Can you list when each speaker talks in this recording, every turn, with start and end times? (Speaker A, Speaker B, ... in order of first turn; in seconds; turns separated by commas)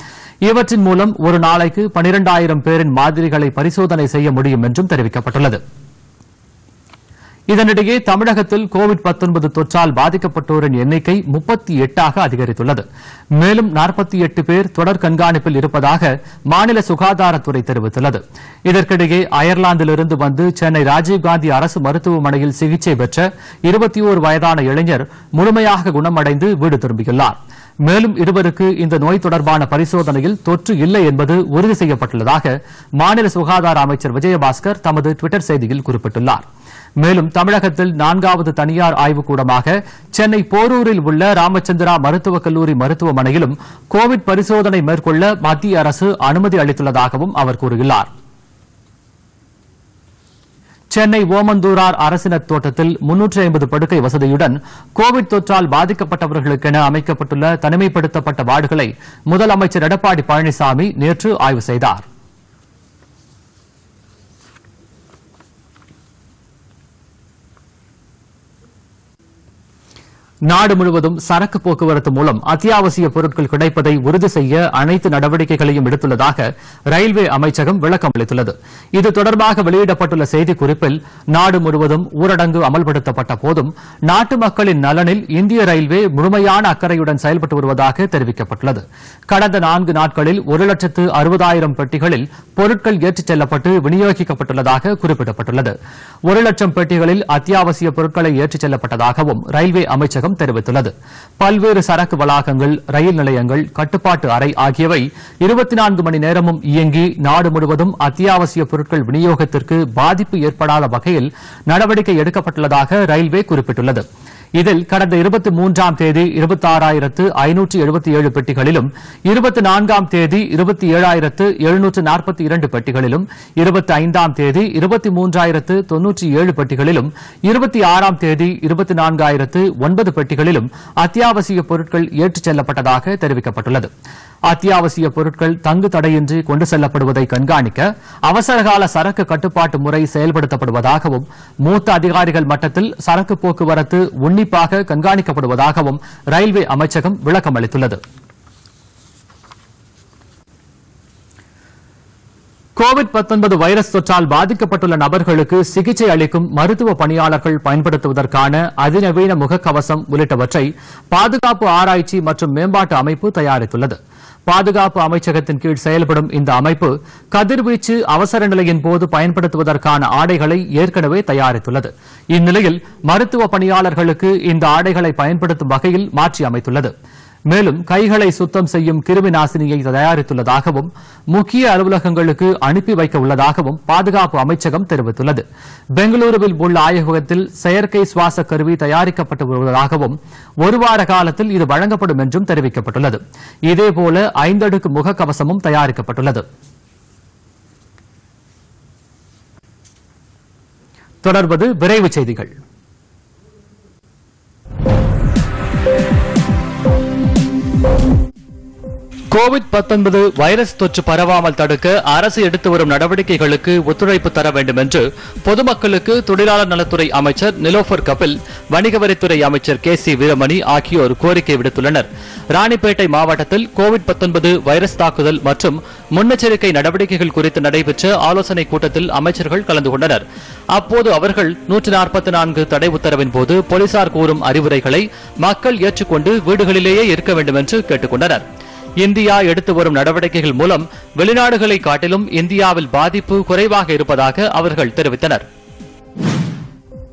Speaker A: 0.4-5.6, Speaker A: 7.5-12.8, Speaker A: 13.4-36.4, Speaker A: 37.0-48.1, Speaker A: 50.9-62.0, Speaker A: 70.5-95.7, Speaker A: 96.3-114.0, Speaker A: 114.6-133.9, Speaker A: 134.5-148.0, Speaker A: 152.8-176.9, Speaker A: 177.5-185.4, Speaker A: 186.0-196.4, Speaker A: 201.2-202.6, Speaker A: 209.3-238.4, Speaker A: 239.0-245.4